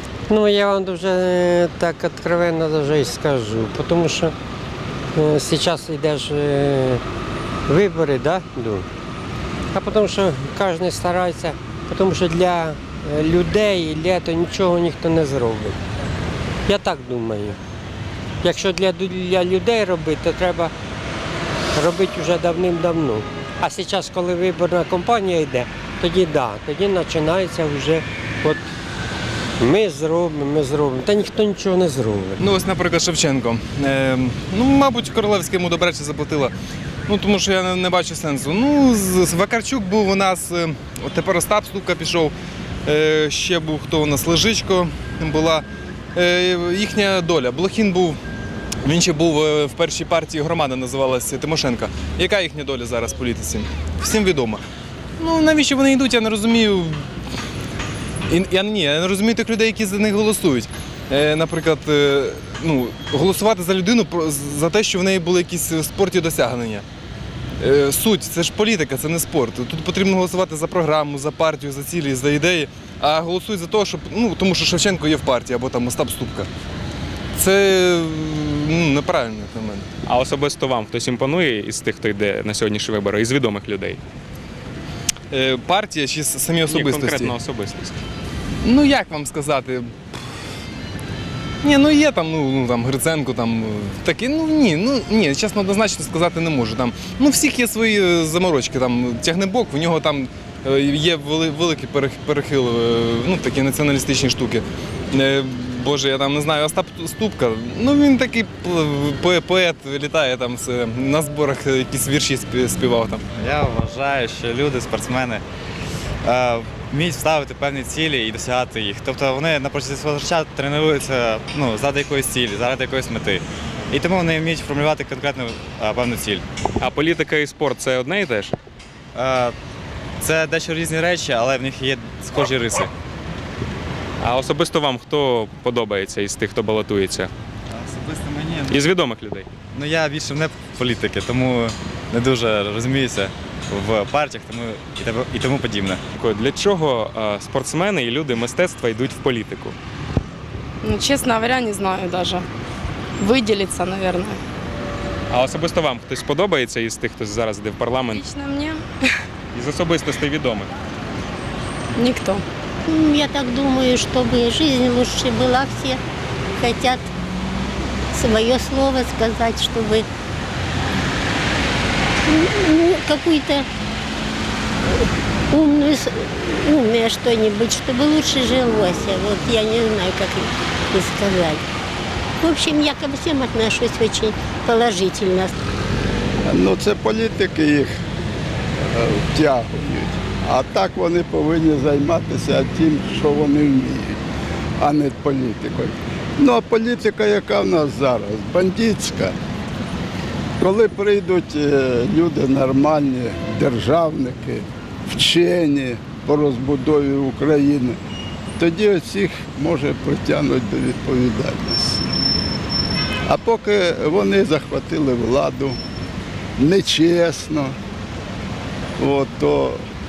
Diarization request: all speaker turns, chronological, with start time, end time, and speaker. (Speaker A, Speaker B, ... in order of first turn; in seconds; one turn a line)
Speaker A: 0.3-4.3
Speaker A: 5.1-7.0
Speaker A: 7.7-8.9
Speaker A: 9.7-15.8
Speaker A: 16.7-17.6
Speaker A: 18.4-20.7
Speaker A: 21.7-28.6
Speaker A: 29.6-32.4
Speaker B: 32.4-36.5
Speaker B: 37.1-42.3
Speaker B: 42.9-48.2
Speaker B: 48.8-54.6
Speaker B: 55.2-57.0
Speaker B: 58.3-66.8
Speaker B: 67.6-76.5
Speaker B: 77.3-79.9
Speaker C: 80.1-84.0
Speaker B: 85.3-87.3
Speaker C: 86.7-88.0
Speaker B: 88.6-90.2
Speaker B: 91.6-113.2
Speaker D: 113.4-115.4
Speaker D: 116.2-126.4
Speaker C: 126.8-128.6
Speaker D: 129.2-129.6
Speaker D: 130.2-132.9
Speaker C: 134.2-137.3
Speaker D: 137.8-138.7
Speaker C: 138.7-139.5
Speaker D: 139.8-146.0
Speaker C: 146.2-149.8
Speaker E: 150.8-152.5
Speaker E: 153.2-154.4
Speaker C: 155.3-158.2
Speaker E: 158.1-158.8
Speaker C: 159.5-160.7
Speaker E: 161.9-162.4
Speaker F: 162.9-166.0
Speaker F: 166.6-167.1
Speaker F: 168.1-170.1
Speaker F: 172.2-173.7
Speaker F: 175.5-181.6
Speaker F: 182.4-185.5
Speaker G: 186.5-188.0
Speaker G: 188.9-194.2
Speaker G: 194.8-199.4
Speaker G: 200.6-208.0
Speaker G: 208.6-212.1
Speaker G: 213.3-215.8
Speaker G: 216.6-217.8
Speaker G: 219.0-219.8